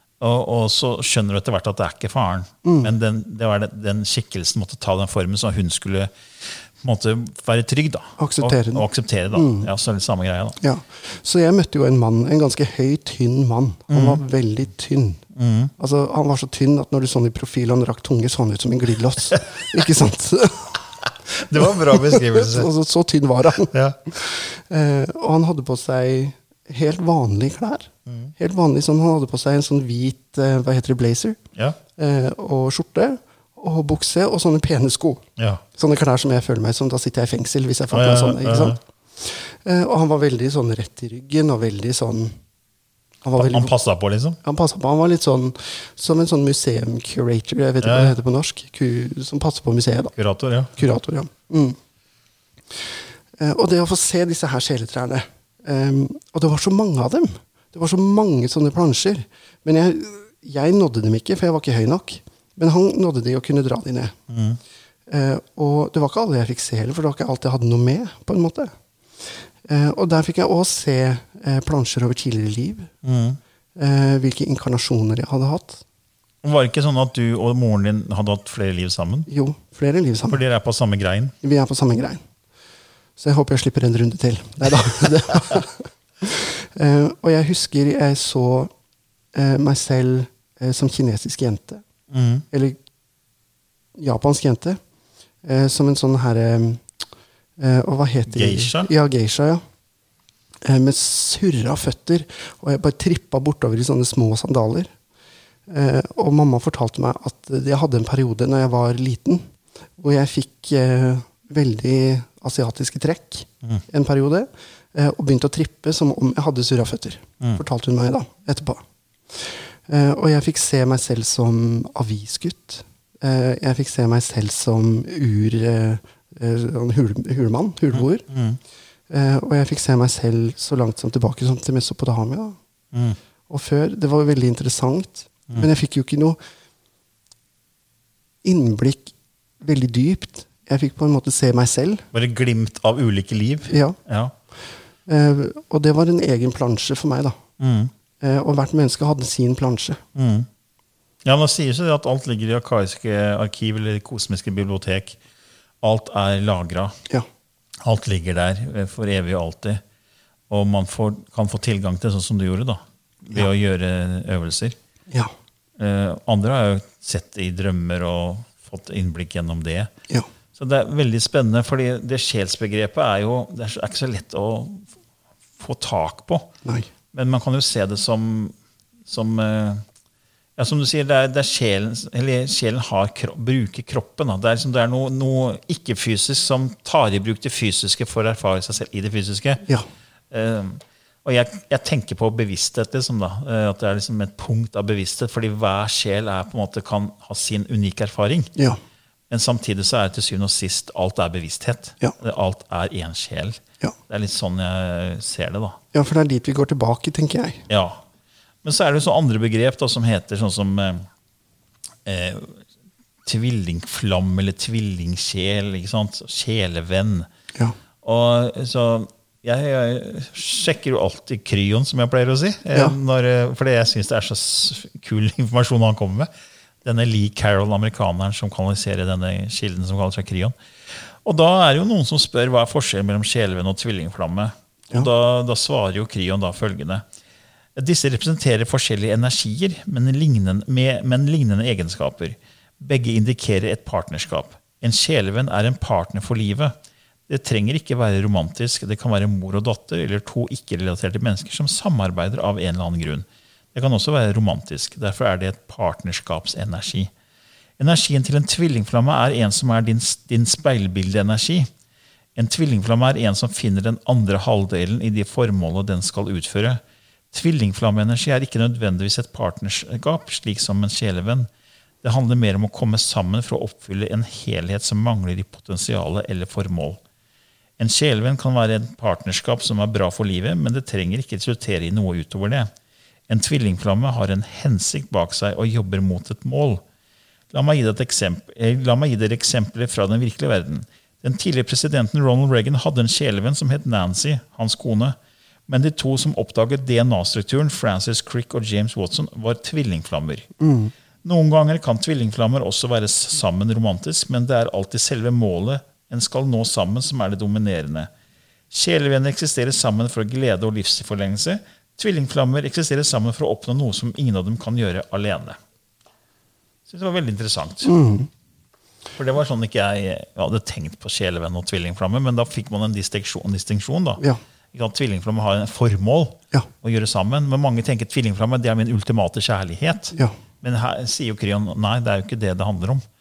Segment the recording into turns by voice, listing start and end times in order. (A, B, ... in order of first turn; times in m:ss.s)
0:00.2-0:10.6 A
0:02.6-0:02.9 B
0:08.2-0:09.7 B
0:10.6-0:15.2 B
0:13.9-0:14.2 A
0:15.3-0:15.7 A
0:15.8-0:20.8 B
0:21.0-0:22.7 A
0:21.6-0:31.4 B
0:23.7-0:24.0 A
0:28.1-0:28.3 A
0:32.0-0:42.4 B
0:37.9-0:38.8 A
0:43.2-0:43.7 B
0:43.4-0:44.4 A
0:44.4-0:50.1 B
0:47.8-0:48.1 A
0:50.2-0:50.8 A
0:50.8-0:51.8 B
0:53.4-1:04.2 B
1:04.3-1:04.6 A
1:05.1-1:12.9 B
1:13.0-1:13.4 A
1:13.8-1:15.8 B
1:16.4-1:19.3 A
1:19.3-1:20.4 B
1:20.3-1:21.3 A
1:21.4-1:22.2 B
1:23.2-1:28.7 B
1:29.3-1:31.8 B
1:32.1-1:32.4 A
1:32.5-1:32.8 B
1:34.0-1:34.8 B
1:35.4-1:36.9 B
1:37.6-1:39.6 B
1:38.3-1:38.9 A
1:40.6-1:44.9 B
1:45.7-2:08.2 B
2:07.9-2:08.6 A
2:09.1-2:12.6 B
2:12.9-2:13.2 A
2:13.5-2:16.4 B
2:18.4-2:22.0 B
2:22.1-2:24.3 A
2:23.7-2:24.0 B
2:25.0-2:27.4 B
2:27.6-2:27.9 A
2:28.2-2:30.0 B
2:30.1-2:30.5 A
2:31.2-2:35.2 A
2:35.8-2:37.0 A
2:37.8-2:39.8 A
2:40.5-2:44.8 A
2:45.8-2:49.9 A
2:50.6-2:54.9 A
2:55.6-2:56.5 A
2:57.1-2:58.5 A
2:59.1-2:59.8 A
3:00.6-3:09.6 A
3:10.3-3:18.5 A
3:19.3-3:25.8 A
3:25.9-3:27.7 B
3:27.7-3:28.0 A
3:28.6-3:31.1 A
3:32.0-3:32.6 A
3:33.2-3:37.3 A
3:38.0-3:46.3 A
3:46.8-3:57.0 A
3:57.8-4:06.7 A
4:07.3-4:17.1 A
4:17.8-4:21.7 A
4:22.4-4:26.8 A
4:27.3-4:31.5 A
4:32.0-4:37.0 A
4:37.8-4:42.7 A
4:43.3-4:46.8 A
4:47.5-4:55.2 A
4:55.7-5:00.5 A
5:00.6-5:00.9 B
5:01.2-5:08.1 A
5:08.7-5:15.6 A
5:16.9-5:17.9 A
5:17.8-5:18.3 B
5:19.1-5:33.0 A